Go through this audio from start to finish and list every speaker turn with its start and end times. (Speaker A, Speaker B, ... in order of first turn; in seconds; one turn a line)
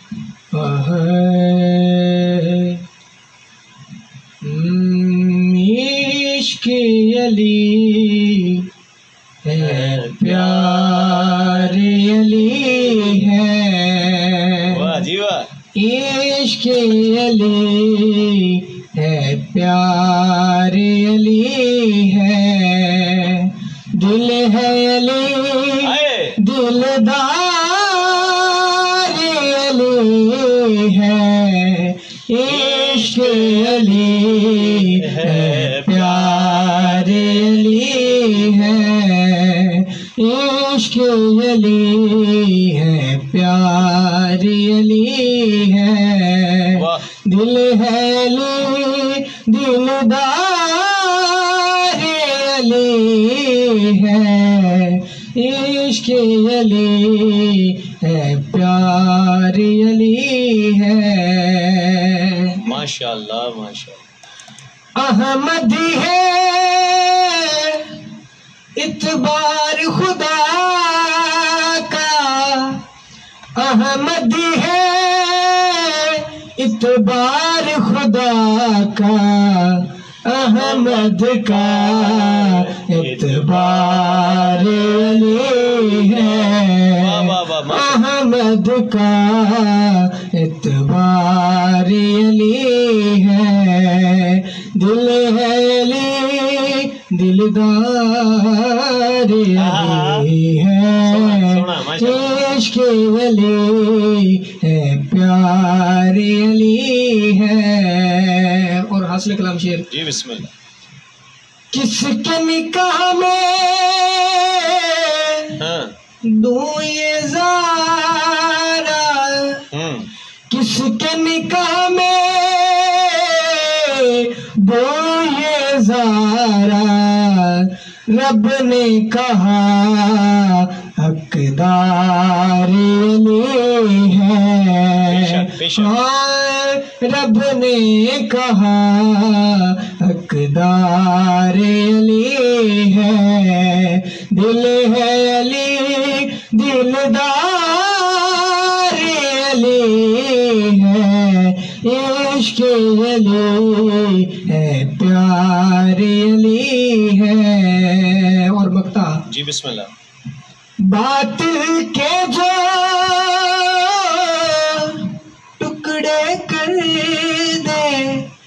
Speaker A: 0.5-2.8
Speaker A: 4.4-8.7
Speaker A: 9.4-15.0
Speaker B: 9.5-11.8
Speaker B: 14.6-15.5
Speaker A: 15.7-62.6
Speaker B: 25.8-26.4
Speaker B: 32.5-37.9
Speaker B: 46.7-47.0
Speaker B: 62.6-64.0
Speaker A: 65.0-67.9
Speaker A: 68.8-72.8
Speaker A: 73.6-109.9
Speaker B: 80.4-88.0
Speaker B: 99.5-100.3
Speaker B: 101.0-102.4
Speaker B: 109.9-110.5
Speaker A: 111.7-115.6
Speaker B: 115.6-115.9
Speaker A: 116.2-119.7
Speaker B: 119.7-120.1
Speaker A: 120.5-159.2
Speaker B: 135.0-135.9
Speaker B: 159.3-159.9
Speaker A: 160.8-168.3